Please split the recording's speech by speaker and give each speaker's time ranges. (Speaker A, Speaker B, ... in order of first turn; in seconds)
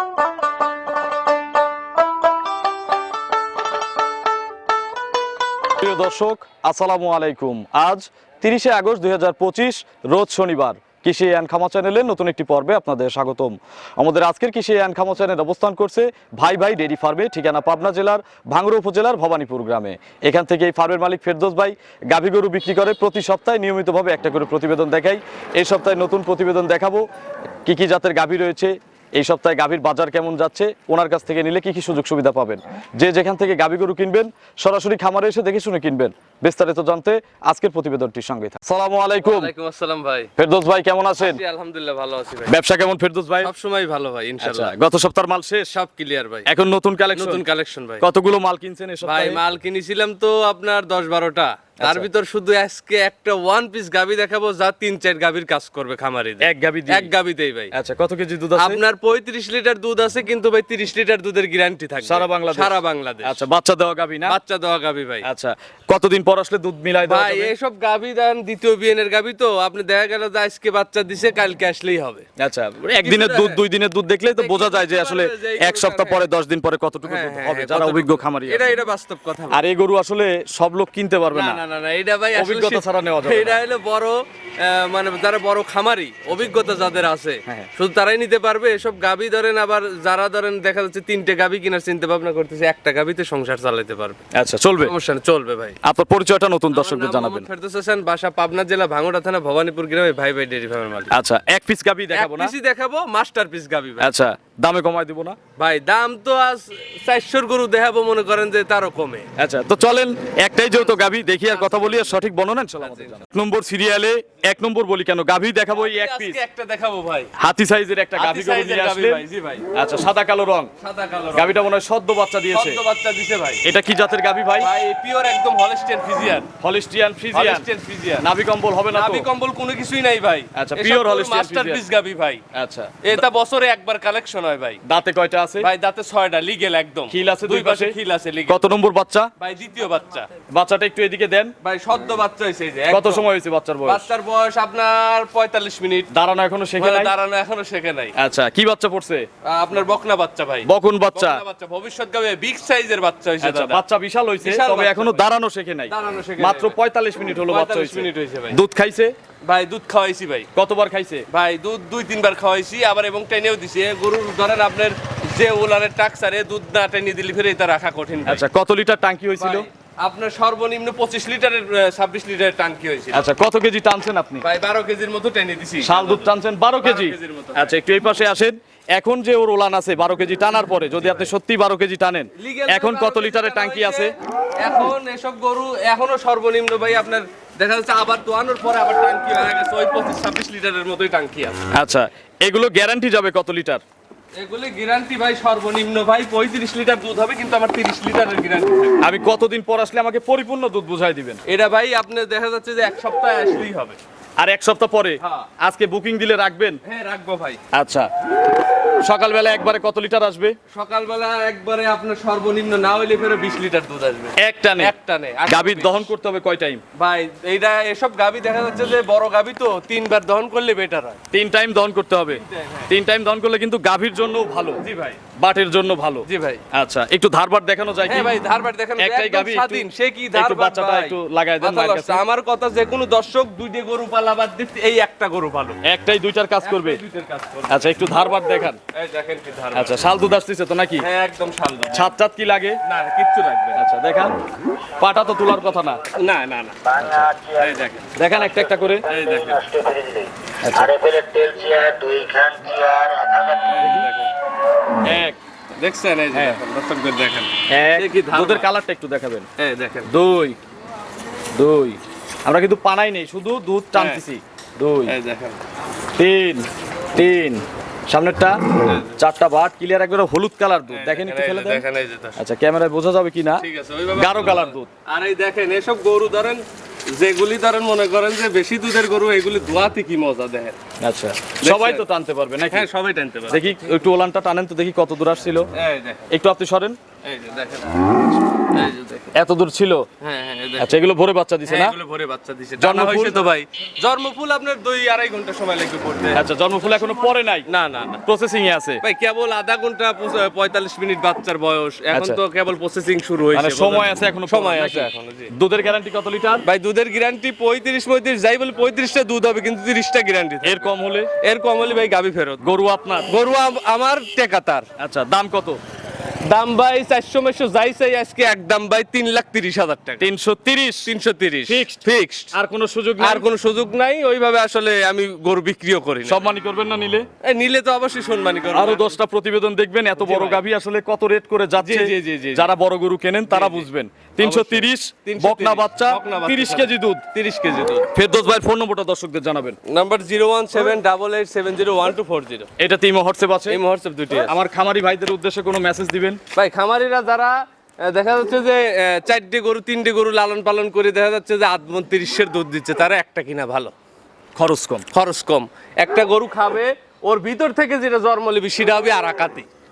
Speaker A: 5.7-27.0, 27.6-39.5, 40.4-41.4, 42.5-43.5, 44.4-45.7, 46.5-47.4, 48.0-49.4, 51.8-52.1, 56.4-57.1, 57.7-58.8, 62.0-64.4, 65.2-67.5, 72.4-78.7, 79.5-81.6, 82.3-83.6, 94.3-94.9, 95.8-97.5, 101.1-102.5, 104.0-105.4, 109.4-116.4, 117.4-120.7, 121.3-122.8, 123.6-124.7, 126.6-129.3, 130.5-131.8, 132.5-133.2, 134.8-135.7, 137.1-137.9, 138.5-139.3, 140.5-141.5, 142.9-144.1, 146.1-147.1, 148.2-149.3, 150.7-151.4, 153.4-159.1, 160.5-161.2, 168.2-169.7, 173.1-174.4, 175.8-184.1, 191.7-193.8, 199.0-201.4, 204.4-206.8, 207.7-208.1, 209.0-210.6, 214.4-214.9, 215.5-216.8, 221.3-224.8, 225.4-228.3, 229.0-232.2, 235.8-237.0, 237.7-238.8, 239.7-241.1, 241.9-242.8, 243.7-244.3, 245.0-246.0, 248.2-249.1, 250.6-250.9, 255.0-255.4, 256.3-256.6, 257.7-259.5, 260.1-260.6, 261.5-265.1, 266.1-271.8, 272.4-274.9, 281.0-282.9, 283.5-285.7, 286.3-287.0, 289.3-290.1, 290.8-291.9, 292.8-293.4, 296.3-297.7, 298.2-299.0, 302.1-302.4, 303.5-306.6, 310.6-311.3, 312.6-313.3, 315.0-315.8, 320.2-321.1, 321.7-323.4, 326.2-327.3, 328.7-337.2, 338.1-339.8, 342.8-343.8, 344.5-346.4, 354.6-355.1
Speaker B: 39.2-40.3, 41.2-42.5, 43.4-44.7, 45.7-46.5, 47.1-48.0, 49.0-57.7, 58.6-63.4, 64.2-65.2, 67.0-72.2, 73.0-73.6, 74.4-76.2, 77.0-79.6, 81.3-94.2, 94.8-95.8, 96.7-101.1, 102.1-104.1, 105.5-109.3, 111.5-112.2, 112.8-113.2, 115.7-117.3, 118.2-119.6, 120.8-121.6, 122.5-123.6, 124.6-126.5, 127.3-128.2, 128.9-132.4, 133.0-134.8, 135.6-138.7, 139.4-140.3, 141.6-143.2, 143.8-146.1, 146.8-148.1, 149.4-153.8, 154.4-155.2, 155.9-156.8, 157.5-158.6, 159.4-160.5, 161.3-168.4, 169.4-173.2, 174.4-176.3, 176.8-177.7, 181.0-181.3, 182.3-191.6, 194.4-199.0, 201.5-204.0, 205.2-205.5, 206.8-207.6, 210.7-216.1, 216.9-221.2, 222.3-222.9, 224.8-225.2, 226.2-226.6, 228.1-235.8, 236.6-237.9, 238.9-240.0, 241.0-242.1, 242.8-243.8, 246.1-248.1, 249.0-249.6, 253.7-254.3, 255.7-258.7, 259.6-260.1, 263.9-264.2, 265.1-265.6, 268.8-269.1, 270.9-272.4, 273.6-280.8, 281.6-282.0, 282.7-283.7, 285.7-286.3, 287.2-289.3, 290.2-291.0, 291.6-298.2, 299.0-305.5, 306.6-312.6, 313.3-314.9, 316.4-320.3, 321.1-322.5, 323.2-326.4, 327.4-329.1, 330.2-330.6, 331.8-332.6, 333.5-333.9, 334.4-338.1, 339.9-342.7, 343.7-344.5, 346.5-353.9, 355.1-359.7
Speaker C: 247.0-247.5, 249.2-250.3, 251.0-253.6